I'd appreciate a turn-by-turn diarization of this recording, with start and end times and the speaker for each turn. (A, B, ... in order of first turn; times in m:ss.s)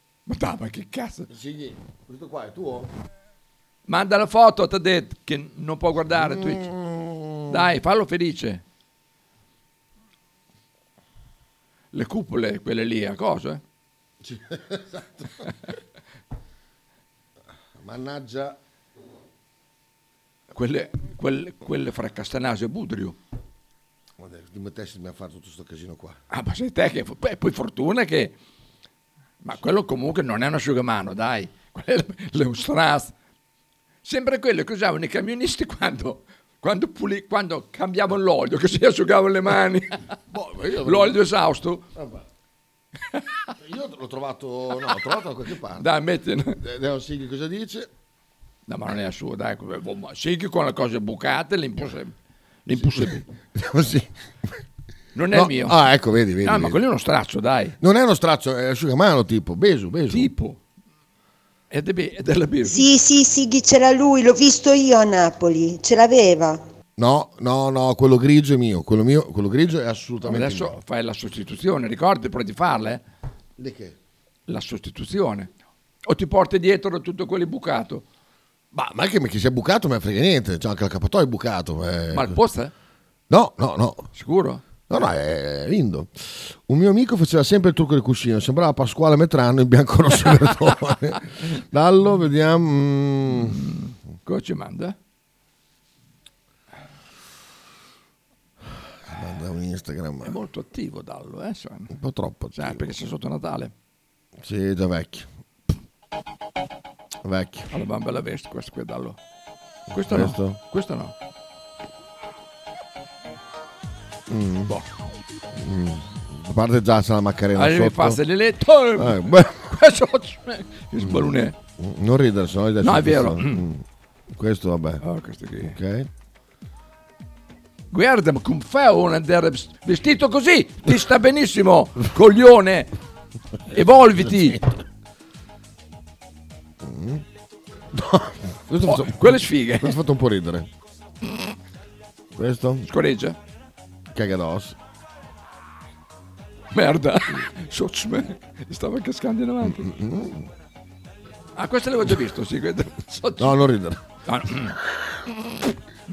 0:00.3-0:01.3 A
0:01.3-0:02.9 B
0:03.9-0:06.7 A
0:06.1-0:07.6 B
0:07.5-0:08.6 A
0:11.9-0:13.6 A
0:14.2-0:15.5 B
0:17.8-0:18.6 B
0:20.5-0:23.2 A
0:24.2-0:26.2 B
0:26.3-0:28.3 A
0:29.4-0:33.1 A
0:34.0-0:40.0 A
0:40.3-0:41.2 B
0:40.8-0:41.8 A
0:41.9-0:42.2 B
0:43.6-0:45.8 B
0:45.8-0:46.6 A
0:46.6-0:47.9 B
0:48.7-0:52.1 A
0:52.6-0:53.2 A
0:52.7-0:54.1 B
0:55.1-0:55.8 A
0:55.3-0:56.8 B
0:56.4-0:57.8 A
0:57.8-1:00.3 B
1:00.1-1:00.6 A
1:01.7-1:02.9 A
1:02.6-1:06.6 C
1:07.0-1:10.8 B
1:10.2-1:13.0 A
1:13.6-1:14.0 B
1:14.5-1:15.5 A
1:16.0-1:18.0 A
1:18.7-1:22.3 B
1:22.1-1:22.7 A
1:23.3-1:24.1 B
1:24.1-1:24.6 A
1:24.9-1:33.6 B
1:33.3-1:34.9 A
1:39.1-1:40.3 B
1:40.2-1:41.9 A
1:41.9-1:42.8 B
1:42.6-1:43.7 A
1:44.4-1:45.3 B
1:47.2-1:47.7 B
1:47.7-1:49.2 A
1:49.9-1:51.1 A
1:50.1-1:50.6 B
1:54.3-1:54.7 B
1:55.6-1:58.2 B
1:57.6-2:01.6 A
1:59.0-1:59.7 B
2:01.0-2:05.0 B
2:02.8-2:03.6 A
2:05.0-2:05.8 A
2:05.6-2:06.1 B
2:07.9-2:12.9 A
2:13.7-2:14.6 A
2:14.2-2:14.7 B
2:16.8-2:17.2 B
2:17.9-2:20.7 B
2:18.8-2:20.0 A
2:22.4-2:22.9 B
2:22.9-2:23.4 A
2:24.1-2:24.8 B
2:26.7-2:29.9 A
2:29.6-2:30.5 B
2:31.6-2:33.6 A
2:33.4-2:34.0 B
2:34.2-2:34.8 A